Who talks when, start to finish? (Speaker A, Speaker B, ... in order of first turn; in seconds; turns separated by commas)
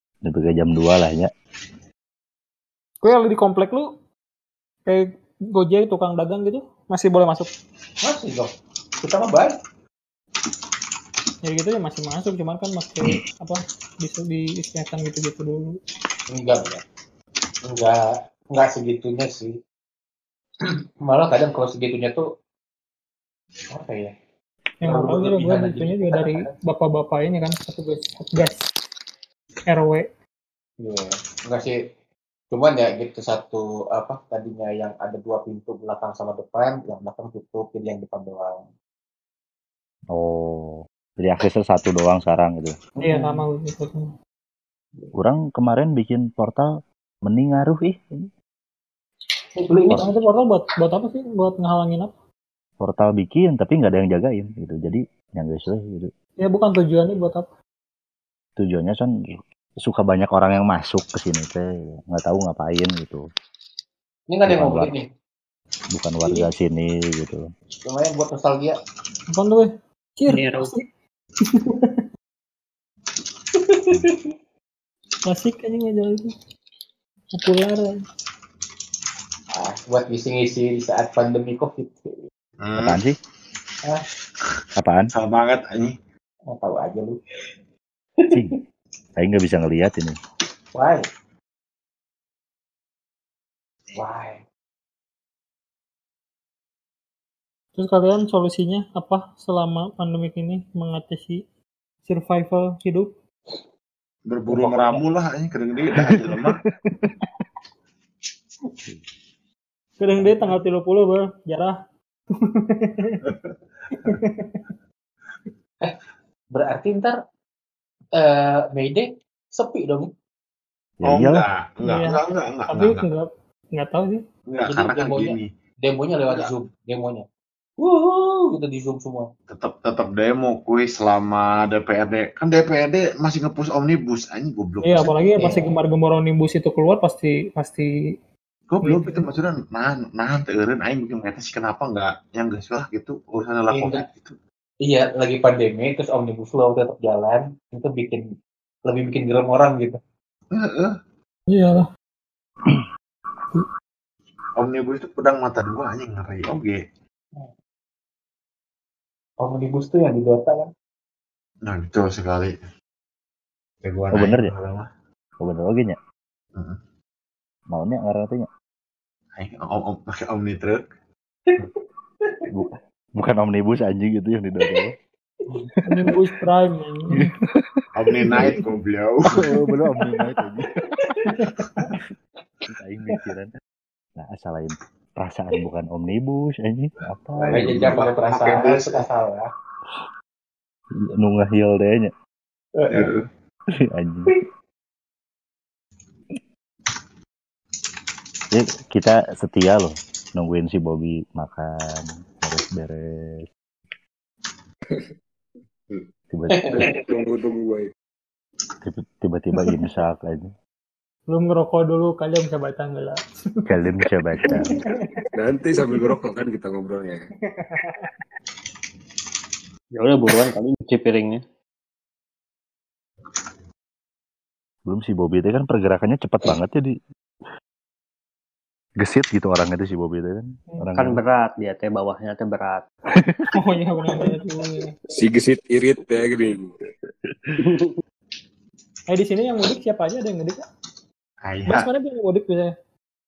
Speaker A: 0.2-1.3, Speaker B: 3.0-3.9, Speaker B: 4.9-7.5, Speaker C: 8.0-9.6, Speaker B: 11.4-15.8, Speaker C: 16.3-16.8, Speaker C: 17.7-18.0, Speaker C: 18.5-19.6, Speaker C: 21.0-22.2, Speaker C: 23.7-24.1, Speaker B: 24.8-28.7, Speaker C: 24.8-26.5, Speaker B: 29.7-30.1, Speaker C: 30.8-31.8, Speaker C: 32.5-38.7, Speaker A: 40.1-42.8, Speaker B: 43.0-44.1, Speaker C: 43.0-43.4, Speaker A: 45.2-46.7, Speaker A: 47.2-48.3, Speaker C: 49.6-50.1, Speaker B: 49.9-52.1, Speaker A: 52.8-56.1, Speaker B: 56.4-57.5, Speaker A: 58.6-59.1, Speaker A: 59.8-63.2, Speaker C: 64.3-65.1, Speaker A: 64.5-64.9, Speaker A: 65.9-67.5, Speaker C: 66.2-66.5, Speaker C: 67.8-68.8, Speaker B: 69.3-70.9, Speaker D: 70.3-70.7, Speaker B: 71.5-72.0, Speaker C: 73.6-74.2, Speaker B: 75.3-76.3, Speaker B: 77.3-78.0, Speaker C: 79.5-82.3, Speaker E: 82.6-83.0, Speaker A: 82.8-83.2, Speaker A: 84.8-85.1, Speaker E: 85.1-86.0, Speaker C: 86.5-87.2, Speaker C: 88.2-88.6, Speaker A: 88.3-88.6, Speaker A: 89.2-90.2, Speaker C: 90.7-91.0, Speaker C: 94.0-94.4, Speaker B: 97.8-101.4, Speaker B: 102.1-103.1, Speaker E: 104.3-106.6, Speaker C: 104.5-105.0, Speaker A: 105.9-107.1, Speaker B: 110.0-111.8, Speaker B: 112.5-113.2, Speaker E: 113.2-113.5, Speaker B: 113.9-114.6, Speaker C: 116.5-117.2, Speaker C: 118.2-120.1, Speaker A: 121.0-121.5, Speaker E: 121.0-123.0, Speaker B: 121.8-124.2, Speaker E: 124.5-125.5, Speaker C: 124.6-127.2, Speaker C: 127.8-129.3, Speaker E: 129.5-135.2, Speaker B: 134.8-137.9, Speaker C: 135.4-135.7, Speaker E: 138.7-144.4, Speaker B: 138.8-139.2, Speaker C: 143.7-144.1, Speaker C: 144.8-148.2, Speaker C: 148.9-150.0, Speaker E: 150.5-150.9, Speaker B: 151.5-151.9, Speaker E: 154.6-156.8, Speaker C: 159.4-160.7, Speaker E: 161.6-162.7, Speaker E: 163.8-164.9, Speaker A: 164.1-164.5, Speaker A: 165.4-166.0, Speaker A: 167.7-168.5, Speaker E: 169.4-170.8, Speaker A: 172.5-174.9, Speaker B: 175.9-177.2, Speaker A: 177.5-178.6, Speaker E: 177.9-179.4, Speaker A: 179.3-180.7, Speaker B: 181.3-181.6, Speaker A: 182.7-183.5, Speaker A: 184.2-187.9, Speaker C: 187.4-189.5, Speaker E: 187.5-189.0, Speaker A: 191.1-192.1, Speaker C: 192.8-193.2, Speaker E: 192.9-193.3, Speaker A: 193.9-194.3, Speaker A: 198.5-203.4, Speaker A: 206.3-206.9, Speaker C: 206.5-206.9, Speaker F: 206.8-207.9, Speaker A: 208.8-210.5, Speaker B: 211.3-213.2, Speaker A: 213.7-214.8, Speaker B: 214.4-215.1, Speaker F: 215.3-217.3, Speaker B: 217.6-218.1, Speaker D: 219.9-221.4, Speaker A: 224.9-226.9, Speaker A: 229.0-231.2, Speaker D: 231.0-232.8, Speaker B: 233.5-234.9, Speaker F: 235.1-236.7, Speaker D: 237.6-238.0, Speaker B: 239.1-240.6, Speaker E: 241.4-241.9, Speaker B: 241.7-242.7